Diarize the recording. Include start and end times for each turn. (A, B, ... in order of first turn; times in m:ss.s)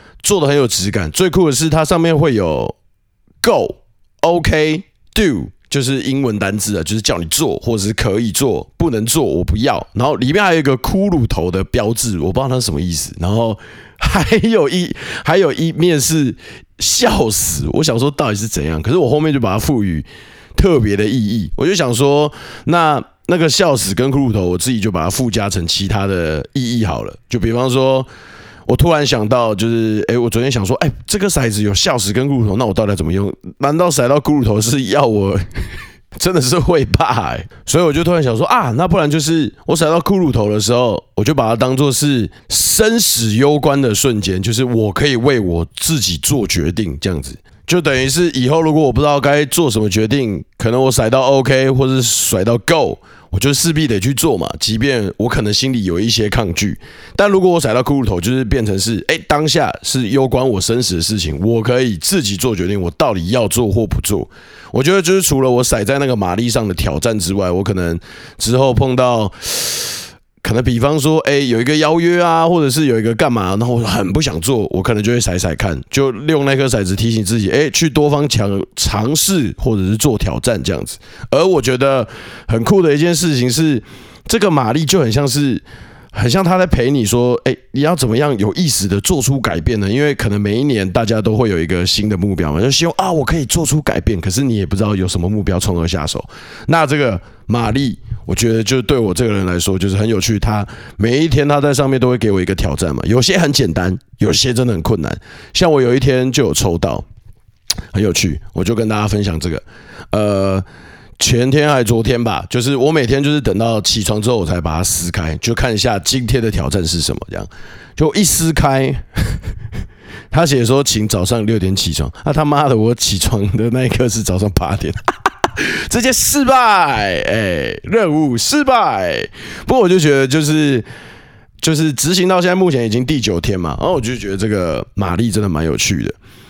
0:00.2-0:02.8 A
0:03.4-0:28.1 A
0:28.7-1:25.6 A
1:26.1-1:47.0 A
1:47.9-1:50.6 A
1:51.2-1:59.4 A
2:00.3-2:10.9 A
2:11.6-2:16.2 A